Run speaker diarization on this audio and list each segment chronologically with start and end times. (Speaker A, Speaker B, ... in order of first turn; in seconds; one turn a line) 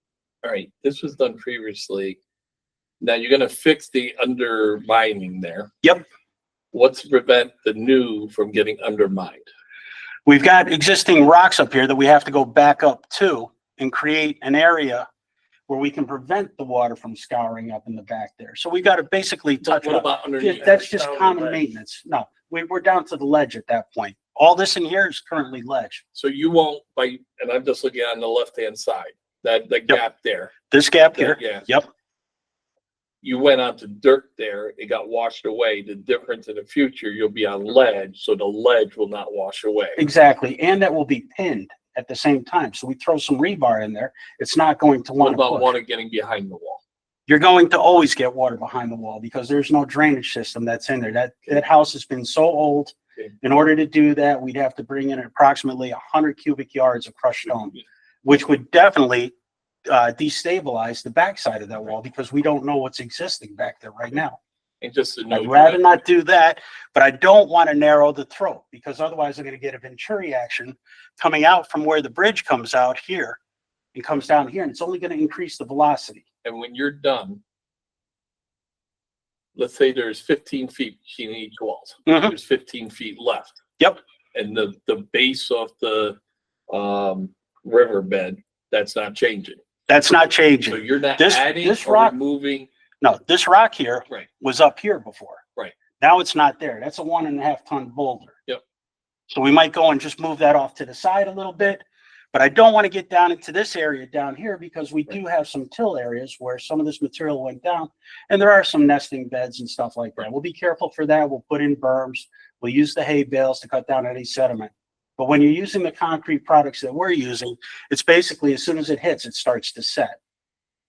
Speaker A: 0.4-2.2
Speaker A: 3.0-5.7
Speaker A: 6.7-9.5
Speaker B: 10.3-15.1
Speaker B: 15.7-26.0
Speaker A: 19.6-21.6
Speaker A: 26.1-30.6
Speaker B: 30.7-31.9
Speaker A: 31.1-31.7
Speaker A: 33.2-40.0
Speaker B: 40.0-45.7
Speaker A: 45.2-46.8
Speaker B: 47.3-59.3
Speaker B: 59.9-64.4
Speaker A: 64.8-66.0
Speaker B: 65.3-73.4
Speaker B: 73.9-76.2
Speaker A: 76.4-77.4
Speaker A: 79.5-83.6
Speaker B: 82.1-82.3
Speaker A: 84.3-86.2
Speaker A: 86.7-89.6
Speaker B: 89.9-92.2
Speaker A: 90.7-92.7
Speaker B: 93.0-95.4
Speaker B: 96.0-98.4
Speaker B: 99.3-120.2